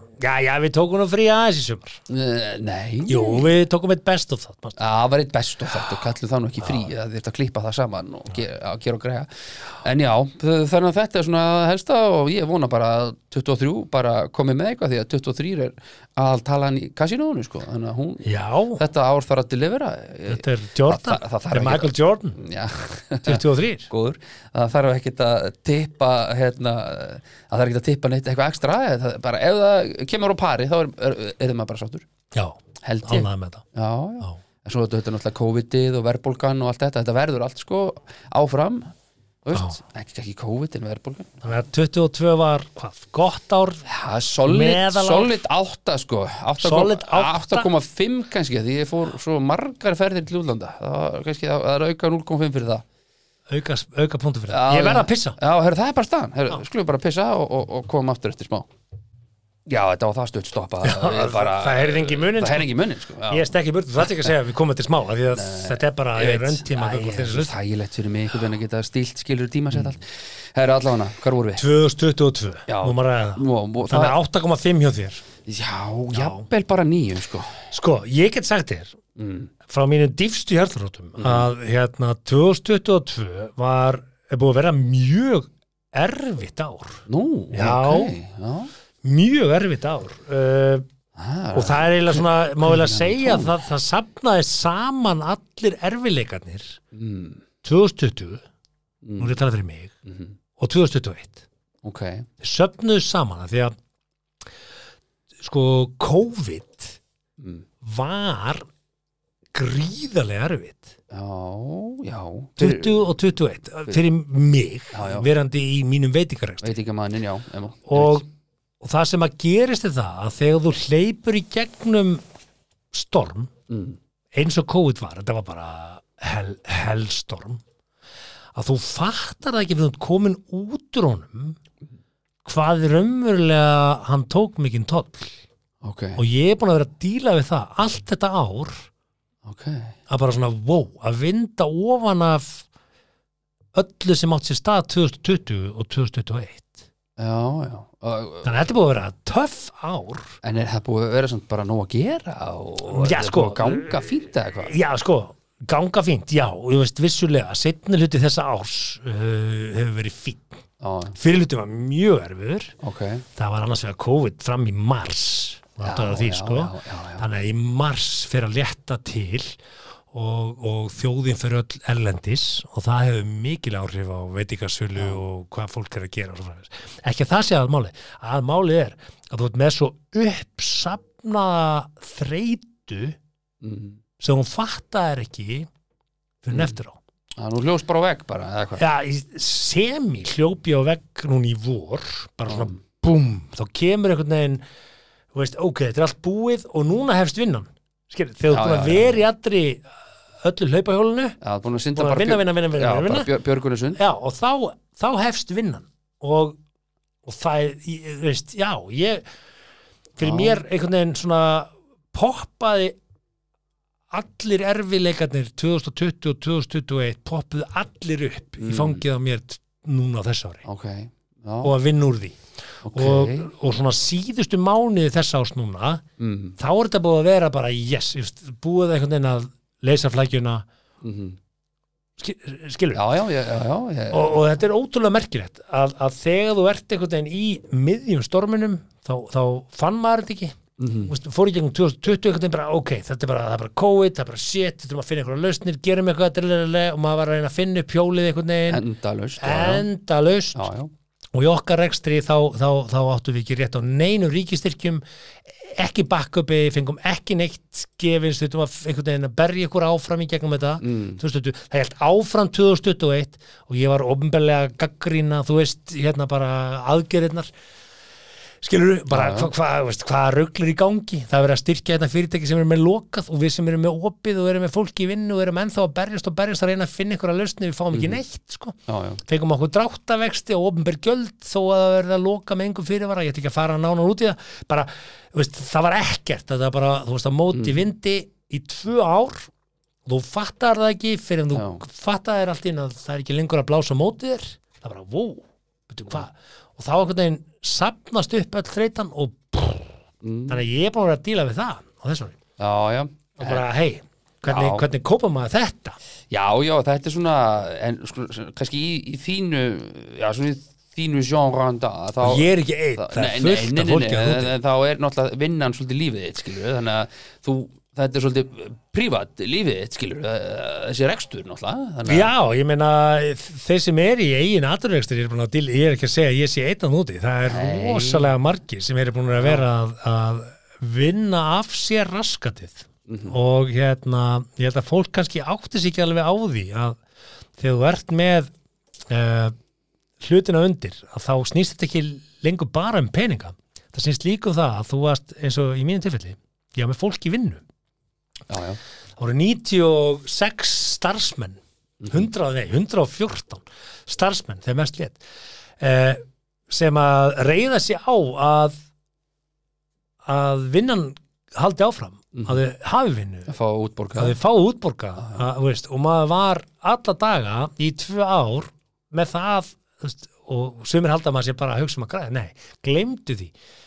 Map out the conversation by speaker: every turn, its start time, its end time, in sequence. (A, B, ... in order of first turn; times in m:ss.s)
0:00.2-0:02.0 A
0:02.1-0:03.5 B
0:03.1-0:04.8 A
0:04.8-0:32.0 B
0:18.2-0:18.8 A
0:20.3-0:22.4 A
0:23.2-0:23.9 A
0:32.3-0:33.6 A
0:32.8-0:38.9 B
0:39.4-0:41.4 B
0:41.4-0:43.8 A
0:43.9-0:52.8 B
0:44.4-0:45.4 A
0:46.6-0:47.7 A
0:53.5-0:55.4 A
0:54.5-0:58.7 B
0:59.7-1:03.5 B
1:00.8-1:02.7 A
1:03.3-1:07.5 A
1:05.3-1:11.6 B
1:11.6-1:15.2 A
1:12.7-1:14.2 B
1:15.5-1:17.6 B
1:16.1-1:16.5 A
1:17.7-1:19.0 A
1:19.2-1:19.5 B
1:19.7-1:28.2 A
1:21.2-1:21.5 B
1:27.1-1:28.7 B
1:29.0-1:30.9 A
1:31.2-1:33.6 B
1:31.5-1:36.8 A
1:36.9-1:37.4 B
1:37.6-1:38.4 A
1:39.0-1:39.4 B
1:39.2-1:39.9 A
1:40.1-1:40.3 B
1:40.6-1:41.4 A
1:41.8-1:42.3 B
1:42.4-1:43.8 A
1:45.4-1:47.0 A
1:47.4-1:47.6 B
1:47.8-1:48.7 A
1:49.5-1:50.9 A
1:51.1-1:53.1 B
1:52.6-1:56.8 A
1:54.9-1:55.3 B
1:56.6-1:58.2 B
1:57.9-1:58.2 A
1:58.8-2:02.2 A
2:02.9-2:03.5 A
2:03.7-2:04.0 B
2:04.3-2:07.6 A
2:08.6-2:11.6 A
2:12.4-2:15.3 A
2:15.8-2:16.2 B
2:16.2-2:18.9 A
2:19.4-2:19.9 B
2:20.1-2:22.7 A
2:23.7-2:26.8 A
2:27.2-2:28.5 B
2:28.4-2:30.4 A
2:30.4-2:34.7 B
2:32.9-2:34.0 A
2:34.6-2:40.6 A
2:40.8-2:41.2 B
2:41.2-2:42.8 A
2:42.8-2:43.3 B
2:43.4-2:49.6 A
2:45.8-2:47.3 B
2:50.1-3:03.2 A
3:03.6-3:04.0 B
3:04.2-3:05.7 A
3:06.4-3:07.0 A
3:07.4-3:08.8 B
3:08.8-3:14.6 A
3:12.5-3:12.8 B
3:15.3-3:19.9 A
3:18.5-3:19.2 B
3:20.4-3:21.4 A
3:21.4-3:24.0 B
3:22.0-3:23.3 A
3:24.0-3:26.6 A
3:27.2-3:29.2 A
3:30.2-3:33.0 A
3:30.2-3:30.6 B
3:34.1-3:40.6 A
3:38.6-3:39.0 B
3:40.6-3:41.7 B
3:41.6-3:42.4 A
3:42.9-3:43.5 B
3:42.9-3:46.0 A
3:46.2-3:46.6 B
3:46.6-3:50.7 A
3:51.0-3:51.4 B
3:52.2-3:53.0 A
3:52.9-3:54.4 B
3:54.1-4:08.8 A
4:00.8-4:01.1 B
4:08.7-4:09.9 B
4:09.4-4:10.7 A
4:10.6-4:10.9 B
4:11.3-4:15.0 A
4:15.6-4:27.5 A
4:20.8-4:21.2 B
4:28.6-4:49.5 A
4:29.1-4:29.5 B
4:37.9-4:38.2 B
4:38.9-4:39.2 B
4:47.5-4:47.8 B
4:50.1-4:59.9 A
4:51.5-4:51.8 B
5:00.2-5:00.6 B
5:00.5-5:02.4 A
5:02.6-5:03.6 B
5:03.4-5:06.0 A
5:04.5-5:04.8 B
5:06.3-5:22.3 B
5:12.2-5:14.6 A
5:22.1-5:37.0 A
5:27.5-5:28.3 B
5:29.4-5:29.6 B
5:33.1-5:33.4 B
5:37.6-5:38.5 A
5:39.1-5:39.6 A
5:40.2-5:47.6 A
5:48.5-5:48.8 B
5:49.2-5:51.6 A
5:52.0-5:52.3 B
5:52.1-5:55.2 A
5:55.8-5:58.8 A
6:00.3-6:03.5 A
6:02.3-6:02.6 B
6:03.5-6:04.4 B
6:04.2-6:13.5 A
6:05.2-6:05.4 B